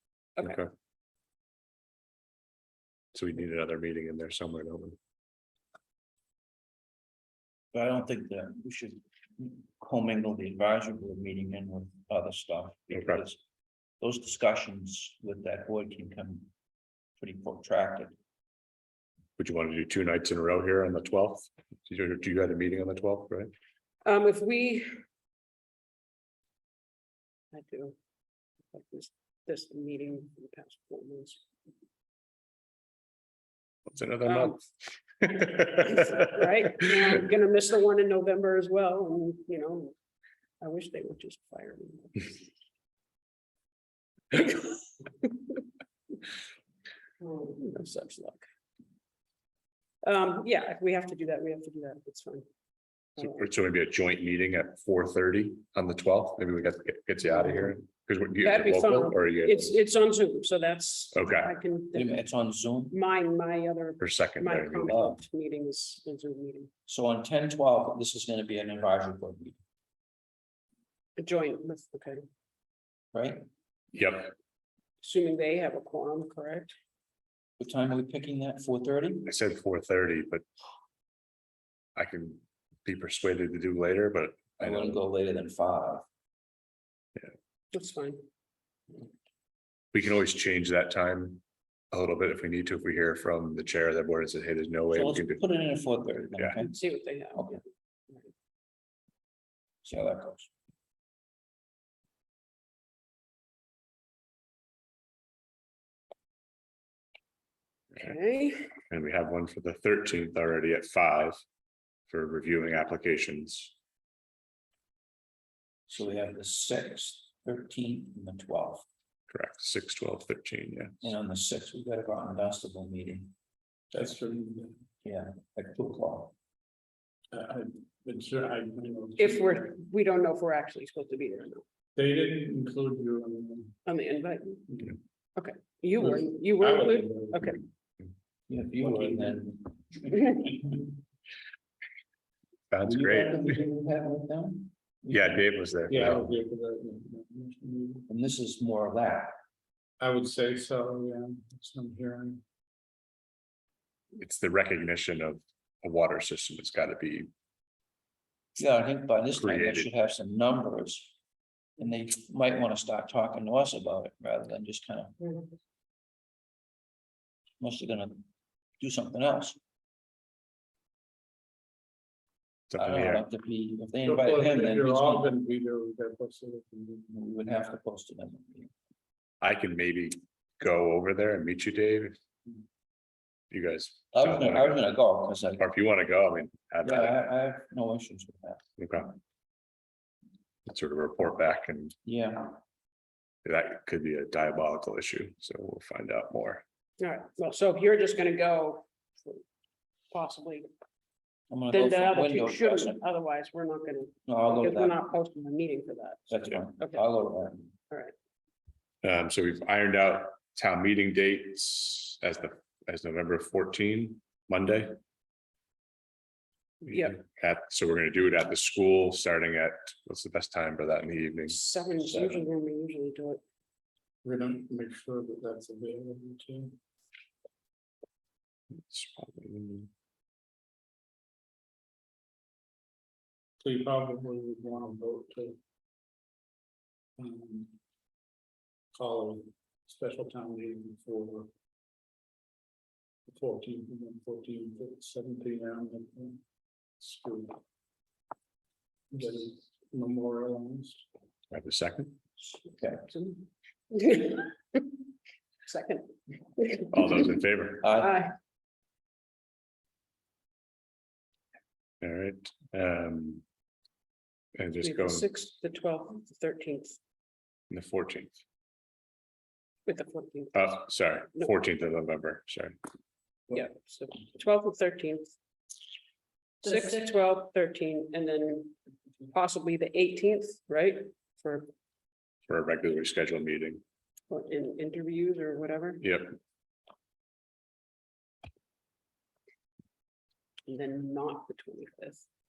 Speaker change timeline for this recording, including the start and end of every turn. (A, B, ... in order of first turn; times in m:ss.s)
0:00.4-0:00.7 A
0:03.1-0:05.0 A
0:07.7-0:13.4 B
0:12.9-0:13.2 A
0:14.0-0:16.5 B
0:17.2-0:18.2 B
0:19.4-0:23.5 A
0:24.0-0:24.9 C
0:27.5-0:28.0 C
0:28.7-0:31.4 C
0:33.9-0:36.3 A
0:34.2-0:34.6 C
0:35.7-0:39.9 C
0:40.6-0:42.5 C
0:44.3-0:45.6 C
0:47.2-0:48.4 C
0:50.0-0:52.4 C
0:53.2-0:53.4 C
0:53.2-0:59.8 A
0:58.4-1:02.1 C
1:01.1-1:01.5 A
1:01.9-1:03.0 B
1:02.9-1:06.7 C
1:04.0-1:05.0 A
1:04.9-1:05.2 B
1:06.9-1:09.6 B
1:11.2-1:12.2 C
1:13.1-1:13.4 B
1:13.9-1:14.3 A
1:15.0-1:16.7 C
1:17.6-1:19.3 B
1:19.2-1:20.4 A
1:22.0-1:25.0 A
1:24.6-1:26.0 B
1:27.7-1:28.2 C
1:29.9-1:35.4 A
1:34.9-1:36.8 B
1:36.6-1:38.3 C
1:37.3-1:37.6 B
1:39.8-1:40.5 B
1:47.9-1:48.7 C
1:48.9-1:51.4 A
1:52.1-1:53.7 A
1:55.9-1:58.8 B
1:59.3-2:00.9 A
2:01.0-2:03.3 B
2:03.9-2:04.8 D
2:05.0-2:06.3 B
2:07.3-2:09.7 D
2:09.2-2:11.6 C
2:12.0-2:13.8 D
2:13.8-2:14.7 C
2:14.7-2:15.0 D
2:15.4-2:17.6 C
2:16.0-2:17.6 D
2:18.5-2:20.5 B
2:18.9-2:19.4 D
2:22.7-2:23.6 A
2:22.9-2:25.4 B
2:25.1-2:26.3 A
2:25.9-2:28.1 D
2:28.1-2:29.3 B
2:30.0-2:32.4 D
2:34.2-2:37.3 A
2:38.6-2:41.2 B
2:39.3-2:39.9 A
2:41.8-2:45.2 B
2:47.6-2:48.3 B
2:48.8-2:49.6 B
2:52.7-2:53.2 A
2:52.8-2:55.3 B
2:54.0-2:57.1 D
2:57.1-2:58.7 B
2:59.4-3:02.2 A
3:03.5-3:04.8 A
3:04.1-3:05.6 B
3:05.6-3:07.2 A
3:06.8-3:08.6 B
3:08.8-3:09.2 A
3:10.7-3:12.0 A
3:12.0-3:12.6 B
3:13.4-3:16.6 A
3:17.0-3:19.4 C
3:20.1-3:20.7 C
3:21.5-3:23.0 B
3:21.7-3:27.1 C
3:24.2-3:25.0 B
3:26.3-3:27.8 B
3:29.0-3:35.0 A
3:36.9-3:37.2 C
3:36.9-3:41.6 A
3:41.5-3:43.4 C
3:44.2-3:46.8 D
3:48.8-3:49.9 A
3:53.6-3:55.6 D
3:57.2-3:57.8 D
3:59.0-4:01.5 D
4:03.3-4:06.4 D
4:07.0-4:07.6 D
4:09.1-4:11.0 D
4:11.5-4:12.2 A
4:12.7-4:13.1 B
4:13.1-4:14.8 C
4:15.6-4:17.3 C
4:16.9-4:17.8 A
4:17.8-4:18.2 B
4:17.9-4:18.3 C
4:22.0-4:23.4 A
4:24.5-4:25.3 A
4:24.8-4:27.0 C
4:27.7-4:28.4 A
4:29.8-4:31.5 C
4:30.5-4:32.8 A
4:33.5-4:35.4 C
4:36.6-4:38.8 C
4:39.3-4:41.7 C
4:42.5-4:43.8 A
4:44.3-4:46.1 C
4:46.0-4:46.3 A
4:50.7-4:52.2 C